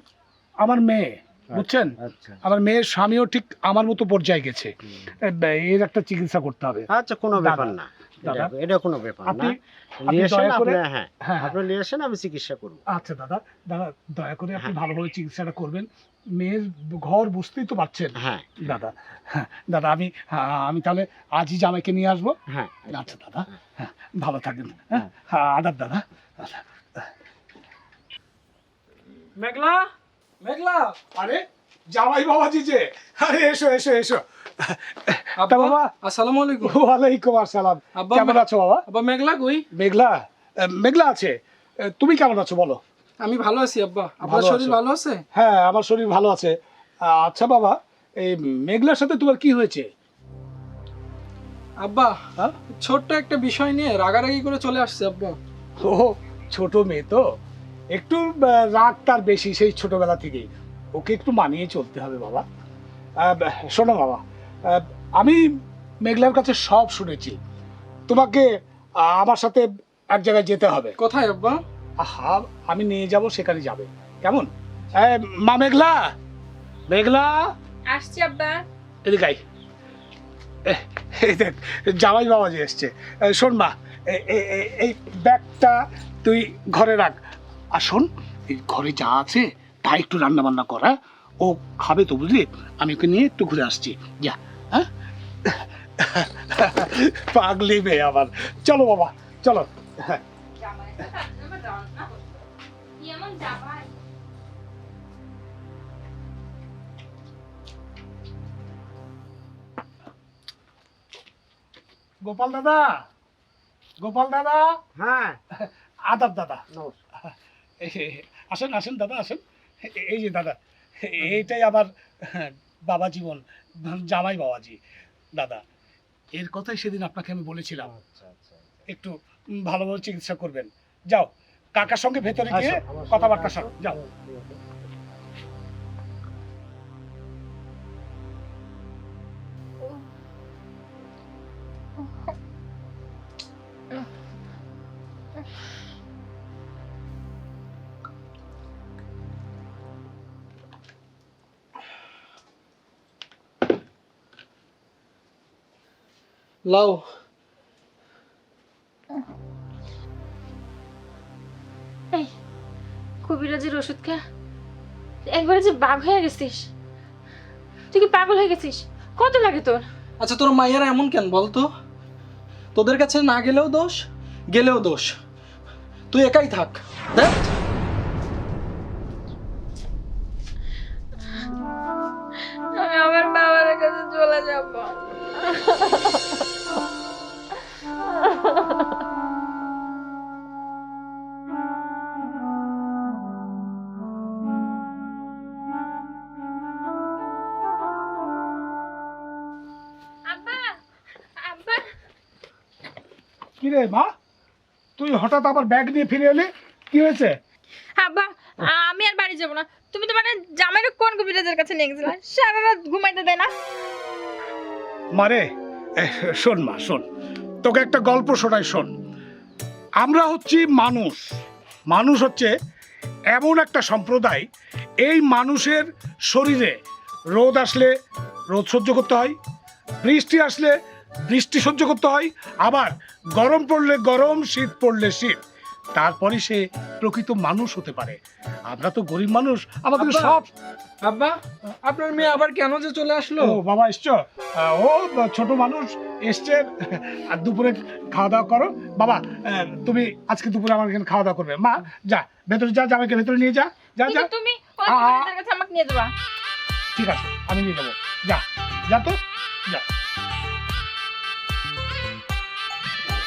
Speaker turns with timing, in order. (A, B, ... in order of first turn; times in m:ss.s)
0:00.6-0:04.7 A
0:01.5-0:02.4 B
0:04.8-0:05.1 B
0:05.2-0:06.8 A
0:06.9-0:12.8 B
0:07.4-0:08.5 A
0:09.2-0:09.6 A
0:10.1-0:11.6 A
0:12.9-0:22.3 A
0:18.2-0:18.8 B
0:22.5-0:23.5 B
0:22.9-0:27.0 A
0:29.4-0:29.9 C
0:30.4-0:31.0 C
0:31.1-0:35.9 A
0:35.4-0:36.7 C
0:36.6-0:38.8 A
0:38.0-0:39.6 C
0:39.7-0:42.8 A
0:43.2-0:45.2 C
0:44.2-0:44.8 A
0:45.3-0:49.8 A
0:51.8-0:52.2 C
0:52.7-0:55.4 C
0:55.8-0:57.2 A
0:57.9-1:02.4 A
1:03.2-1:05.4 A
1:06.0-1:07.4 A
1:08.1-1:08.5 A
1:09.0-1:10.9 A
1:11.0-1:11.6 C
1:12.0-1:14.5 A
1:15.0-1:16.0 A
1:16.9-1:17.4 A
1:17.9-1:18.6 D
1:19.0-1:19.4 A
1:20.6-1:27.2 A
1:27.7-1:34.9 A
1:35.4-1:40.2 A
1:40.6-1:42.4 D
1:43.0-1:43.9 D
1:52.2-1:52.9 A
1:54.0-1:54.8 A
1:55.0-1:55.4 B
1:55.6-1:56.6 A
1:56.7-1:57.0 B
1:57.3-2:04.8 A
2:05.3-2:05.6 A
2:06.3-2:07.9 A
2:07.8-2:08.8 B
2:09.7-2:14.0 A
2:12.5-2:14.6 B
2:36.6-2:37.1 C
2:43.2-2:44.2 E
2:45.2-2:46.7 E
2:47.9-2:49.8 E
2:50.2-2:51.7 C
2:52.7-2:55.2 C
2:56.1-2:57.5 C
3:02.7-3:05.0 D
3:20.3-3:20.8 D
3:21.4-3:21.9 D
3:23.6-3:24.1 A
3:25.0-3:27.3 A
3:28.0-3:33.5 D
3:35.1-3:35.4 A
3:36.0-3:37.0 A
3:37.6-3:38.9 A
3:40.0-3:41.2 A
3:41.9-3:42.5 A
3:43.3-3:44.4 A
3:45.0-3:46.7 A
3:47.3-3:47.9 A
3:48.5-3:49.3 A
3:50.0-3:50.7 A
3:51.3-3:55.4 A
3:55.9-3:58.2 A
3:58.7-4:00.5 A
4:00.0-4:00.4 C
4:01.0-4:03.6 C
4:03.4-4:14.3 A
4:14.0-4:16.1 D
4:14.9-4:15.3 A
4:16.9-4:19.8 A